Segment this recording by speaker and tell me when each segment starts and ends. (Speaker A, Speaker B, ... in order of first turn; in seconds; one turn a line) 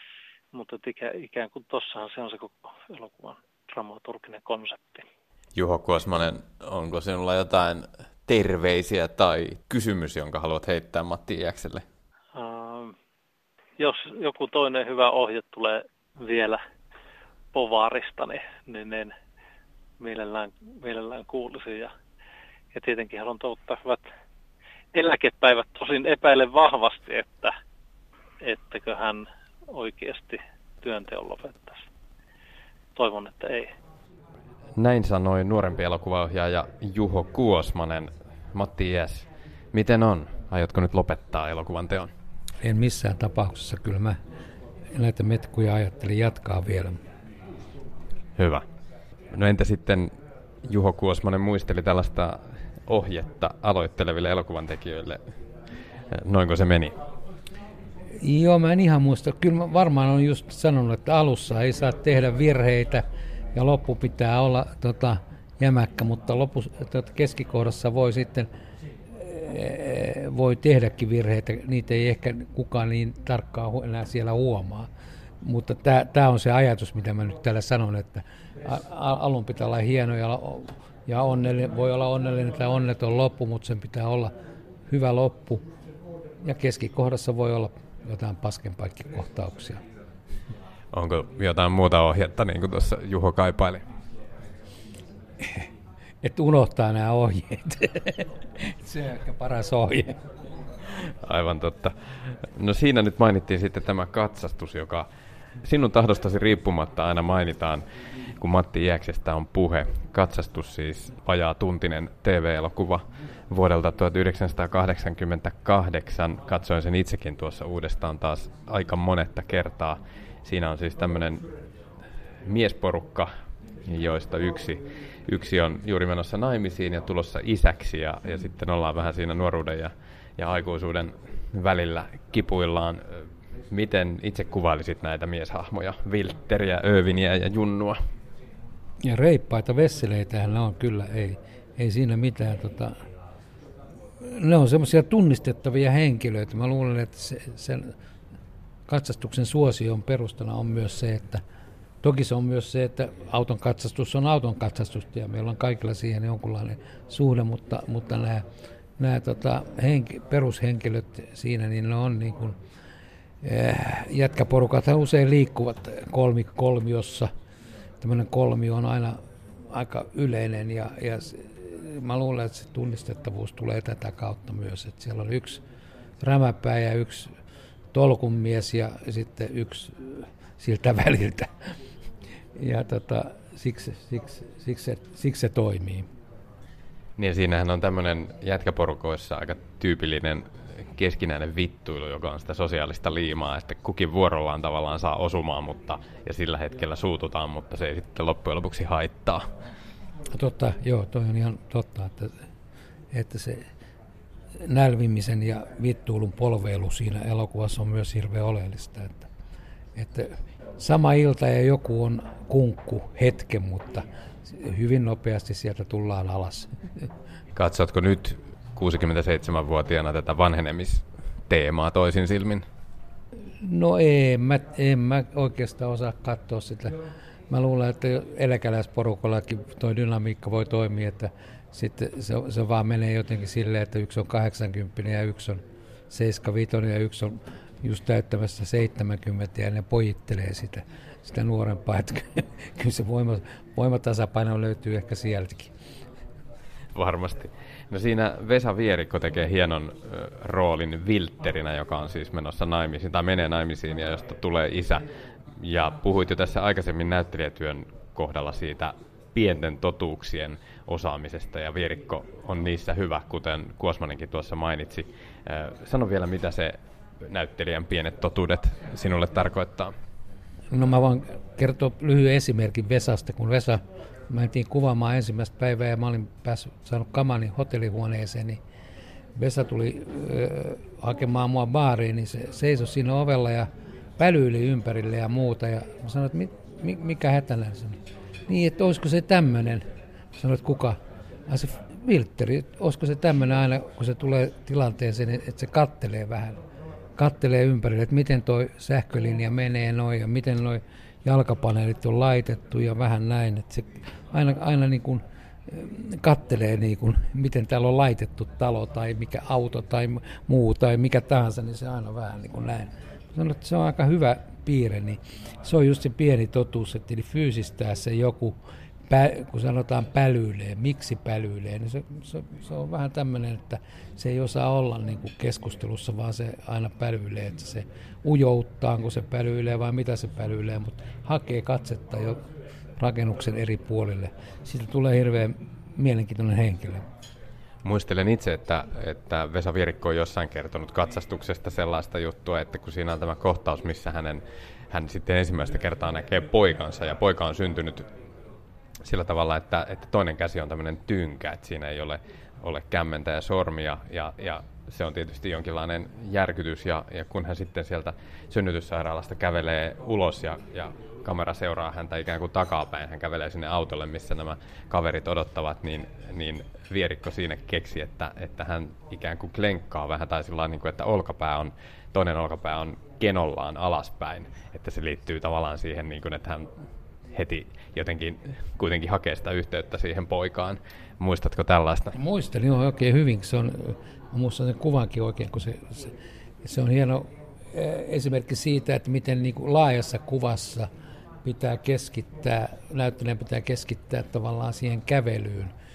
Speaker A: 0.5-5.0
Speaker B: 5.5-11.8
Speaker A: 12.3-12.9
Speaker A: 13.8-16.6
Speaker A: 17.5-19.1
Speaker A: 20.0-21.9
Speaker A: 22.7-24.1
Speaker A: 24.9-27.5
Speaker A: 28.4-31.8
Speaker A: 32.9-33.7
Speaker B: 34.8-42.1
Speaker C: 42.6-44.2
Speaker C: 44.9-47.0
Speaker B: 48.4-48.6
Speaker B: 49.3-50.1
Speaker B: 50.6-55.2
Speaker B: 56.1-57.0
Speaker C: 58.2-68.5
Speaker C: 69.1-74.9
Speaker C: 75.4-84.3
Speaker C: 84.9-85.6
Speaker C: 86.4-89.8
Speaker B: 90.9-93.8
Speaker C: 95.4-95.7
Speaker C: 96.2-100.2
Speaker B: 101.2-105.1
Speaker B: 105.6-107.8
Speaker B: 108.4-121.4
Speaker B: 122.4-123.3
Speaker B: 123.8-138.0
Speaker C: 139.0-142.9
Speaker C: 144.2-147.9
Speaker C: 148.9-151.4
Speaker C: 152.0-158.4
Speaker C: 159.0-162.6
Speaker C: 163.4-167.3
Speaker C: 168.0-169.2
Speaker C: 169.7-175.6
Speaker C: 176.2-177.3
Speaker C: 177.9-181.5
Speaker C: 182.5-186.1
Speaker B: 187.2-199.4
Speaker C: 200.3-202.3
Speaker C: 203.1-203.7
Speaker C: 204.6-209.3
Speaker C: 209.9-217.1
Speaker B: 217.5-222.6
Speaker C: 223.6-227.0
Speaker C: 227.5-245.7
Speaker B: 246.9-255.0
Speaker B: 255.6-269.9
Speaker C: 270.7-278.6
Speaker C: 279.3-296.6
Speaker C: 297.2-332.4
Speaker C: 333.0-337.1
Speaker B: 337.8-348.1
Speaker B: 349.0-376.7
Speaker B: 377.3-382.1
Speaker C: 382.1-390.9
Speaker C: 391.4-395.7